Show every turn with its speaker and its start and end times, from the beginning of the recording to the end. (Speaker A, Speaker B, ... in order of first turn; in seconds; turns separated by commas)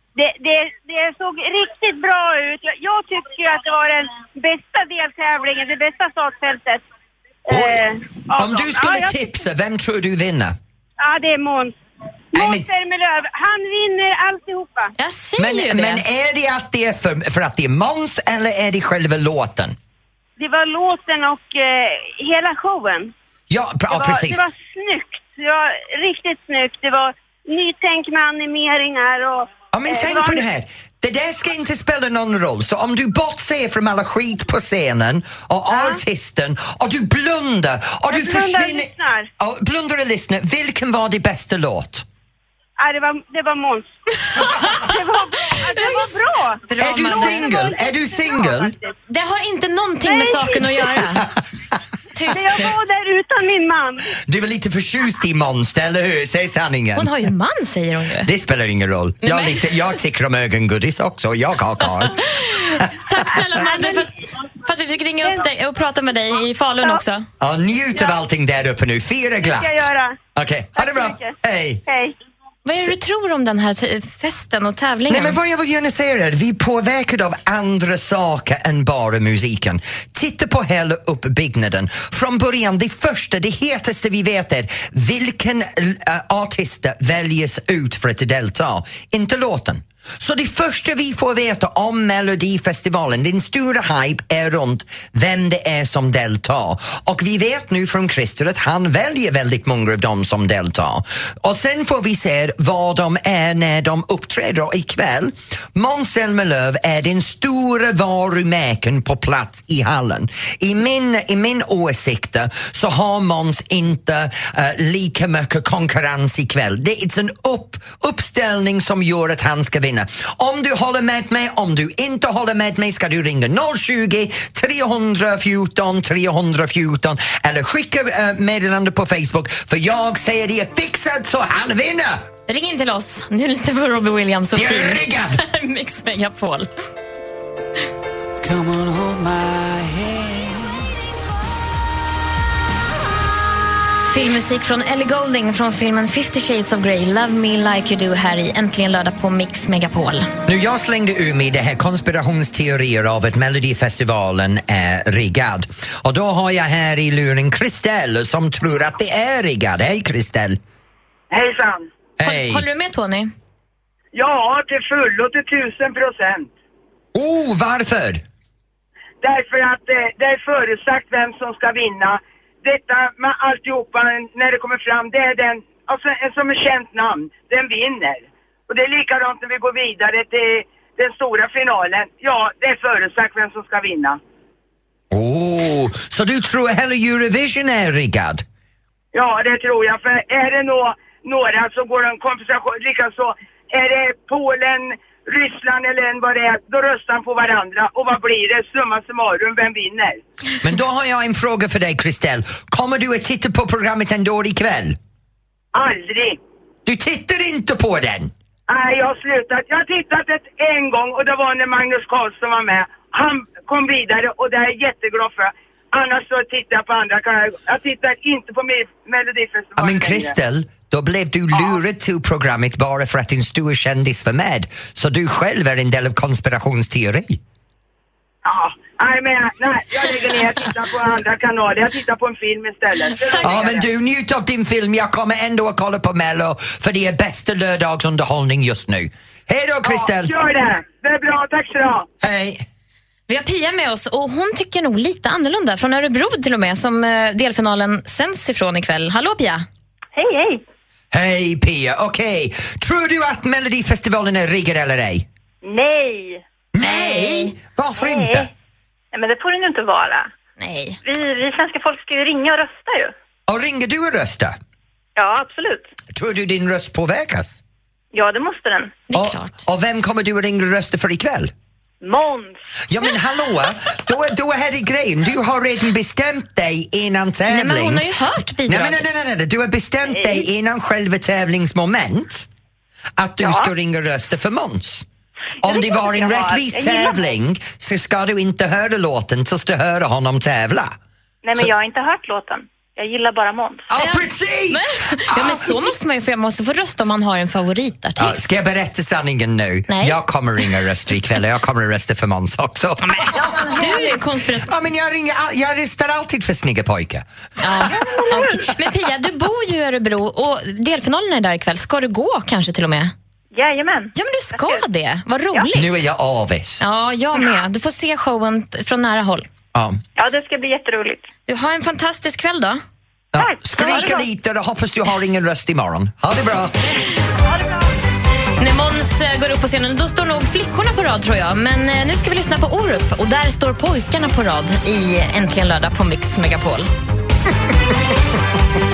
Speaker A: 0.2-6.8, Speaker A: 7.5-9.2, Speaker B: 7.5-10.6, Speaker A: 11.0-11.7, Speaker A: 12.3-14.9, Speaker B: 12.3-12.7, Speaker C: 15.0-16.0, Speaker B: 15.4-19.8, Speaker A: 20.4-23.1, Speaker B: 23.5-24.4, Speaker A: 23.9-30.4, Speaker B: 29.7-42.0, Speaker A: 35.7-36.0, Speaker A: 38.1-39.3, Speaker A: 42.8-48.9, Speaker C: 44.4-44.9, Speaker C: 45.6-47.4, Speaker B: 46.8-48.8, Speaker C: 49.1-51.2, Speaker A: 50.1-50.8, Speaker C: 52.1-52.4, Speaker A: 52.3-54.1, Speaker B: 54.2-57.1, Speaker C: 57.0-58.3, Speaker B: 58.2-62.9, Speaker C: 59.2-59.6, Speaker C: 62.3-64.1, Speaker A: 63.6-64.0, Speaker C: 64.6-67.2, Speaker B: 67.4-71.8, Speaker A: 69.4-70.2, Speaker A: 70.8-71.4, Speaker A: 71.9-72.1, Speaker C: 72.7-75.4, Speaker B: 75.1-132.2, Speaker C: 132.5-136.7, Speaker B: 134.6-135.4, Speaker D: 138.4-140.8, Speaker C: 144.1-150.3, Speaker B: 150.5-160.6, Speaker E: 161.3-161.9, Speaker B: 162.2-162.7, Speaker C: 162.2-163.3, Speaker E: 164.1-166.5, Speaker B: 167.1-168.2, Speaker E: 169.2-184.2, Speaker B: 185.1-188.4, Speaker E: 189.1-200.2, Speaker B: 200.6-205.0, Speaker E: 205.7-206.4, Speaker B: 206.9-208.3, Speaker E: 208.7-220.3, Speaker B: 219.8-227.4, Speaker E: 228.4-233.9, Speaker B: 233.4-240.3, Speaker E: 239.8-242.1, Speaker B: 242.2-242.7, Speaker C: 243.3-249.7, Speaker F: 250.1-250.6, Speaker B: 251.1-255.3, Speaker F: 255.6-258.5, Speaker B: 256.7-258.5, Speaker F: 259.1-260.3, Speaker C: 260.6-261.0, Speaker F: 261.0-263.1, Speaker B: 263.5-264.6, Speaker F: 265.2-265.9, Speaker B: 266.1-267.6, Speaker F: 268.1-269.1, Speaker C: 269.1-269.6, Speaker B: 269.1-271.5, Speaker F: 272.0-272.6, Speaker B: 272.9-278.1, Speaker C: 277.5-279.1, Speaker B: 278.7-282.5, Speaker F: 280.0-280.5, Speaker B: 283.2-285.1, Speaker F: 283.4-283.7, Speaker F: 285.6-287.4, Speaker B: 285.6-291.0, Speaker F: 291.4-293.9, Speaker B: 293.9-295.7, Speaker C: 293.9-298.5, Speaker B: 298.2-304.0, Speaker C: 299.9-300.2, Speaker C: 303.1-304.7, Speaker F: 303.2-304.1, Speaker B: 304.6-308.6, Speaker C: 307.6-313.1, Speaker F: 313.5-314.8, Speaker C: 314.1-316.0, Speaker B: 315.7-316.8, Speaker C: 316.8-319.5, Speaker B: 319.7-320.0, Speaker F: 320.2-321.3, Speaker C: 321.5-322.8, Speaker B: 323.3-326.8, Speaker F: 323.4-324.2, Speaker C: 323.7-324.2, Speaker F: 327.4-327.9, Speaker C: 328.6-336.9